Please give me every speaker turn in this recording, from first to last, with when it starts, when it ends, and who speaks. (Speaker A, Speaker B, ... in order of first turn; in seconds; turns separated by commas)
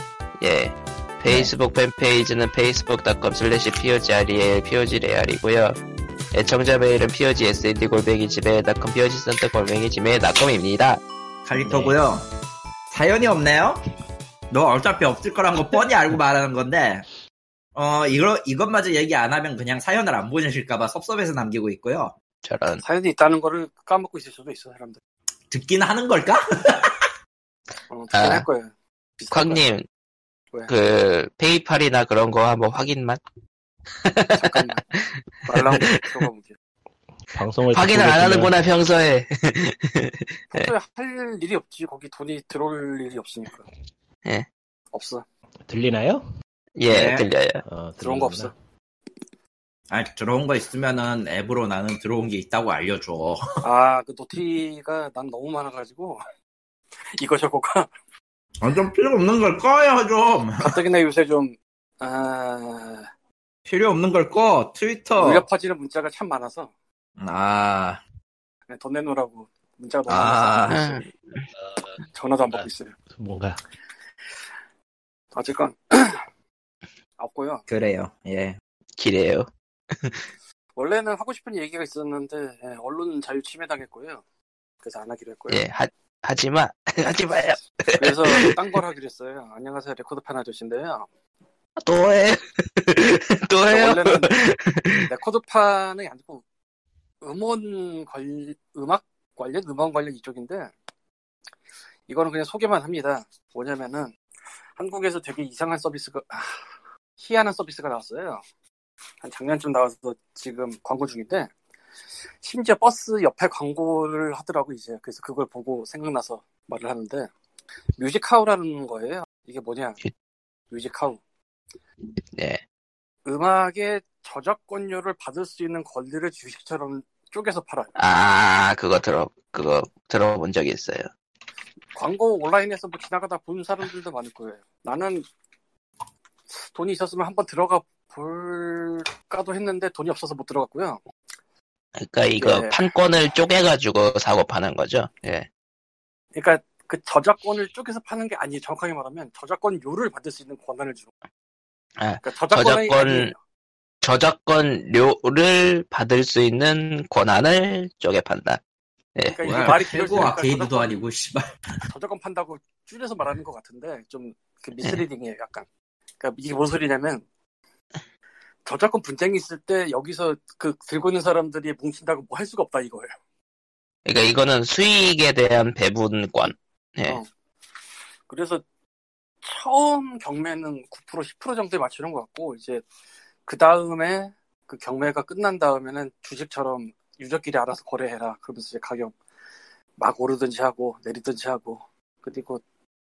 Speaker A: 0.4-5.8, Speaker A: 6.3-11.0, Speaker B: 11.4-12.3, Speaker A: 11.6-11.9, Speaker B: 12.9-13.8, Speaker B: 14.5-17.0, Speaker B: 17.7-22.1, Speaker A: 22.4-22.8, Speaker C: 22.8-25.0, Speaker B: 25.5-27.1, Speaker C: 27.9-29.6, Speaker A: 28.1-28.4, Speaker A: 29.3-29.9, Speaker A: 30.7-33.2, Speaker A: 34.0-36.1, Speaker C: 34.3-34.8, Speaker C: 35.5-36.5, Speaker D: 37.3-38.5, Speaker A: 37.7-40.7, Speaker C: 40.5-43.7, Speaker C: 44.9-45.2, Speaker D: 45.7-46.2, Speaker A: 46.8-47.6, Speaker B: 46.9-47.3, Speaker D: 47.6-48.5, Speaker C: 48.0-48.5, Speaker B: 49.9-53.6, Speaker C: 53.6-56.2, Speaker C: 57.1-57.9, Speaker B: 58.6-60.8, Speaker C: 60.6-63.1, Speaker B: 63.6-65.5, Speaker C: 65.2-66.7, Speaker B: 67.2-68.0, Speaker C: 68.7-71.1, Speaker B: 70.1-70.9, Speaker A: 70.7-71.5, Speaker D: 71.5-73.6, Speaker C: 72.1-72.9, Speaker C: 75.3-76.2, Speaker C: 77.2-77.6, Speaker B: 77.7-78.6, Speaker A: 79.0-80.3, Speaker C: 80.8-84.2, Speaker C: 84.8-85.6, Speaker A: 85.5-88.5, Speaker C: 88.0-91.1, Speaker A: 91.8-95.1, Speaker C: 93.7-94.4, Speaker C: 94.9-96.4, Speaker C: 97.2-100.7, Speaker C: 102.1-104.2, Speaker C: 104.8-108.4, Speaker C: 109.2-111.5, Speaker C: 112.4-117.3, Speaker C: 118.0-120.0, Speaker C: 120.7-121.2, Speaker A: 122.3-122.6, Speaker C: 123.2-127.9, Speaker A: 128.0-131.1, Speaker C: 131.9-135.3, Speaker C: 136.5-141.1, Speaker A: 142.0-145.5, Speaker C: 142.3-142.9, Speaker C: 146.3-151.1, Speaker A: 152.0-153.3, Speaker C: 152.2-153.4, Speaker A: 154.0-158.6, Speaker A: 159.2-159.8, Speaker C: 159.3-160.9, Speaker B: 159.5-161.8, Speaker C: 161.9-165.7, Speaker C: 166.2-167.2, Speaker C: 168.6-173.1, Speaker A: 174.1-177.2, Speaker C: 178.3-178.6, Speaker C: 179.4-182.8, Speaker C: 183.5-189.2, Speaker C: 190.0-192.6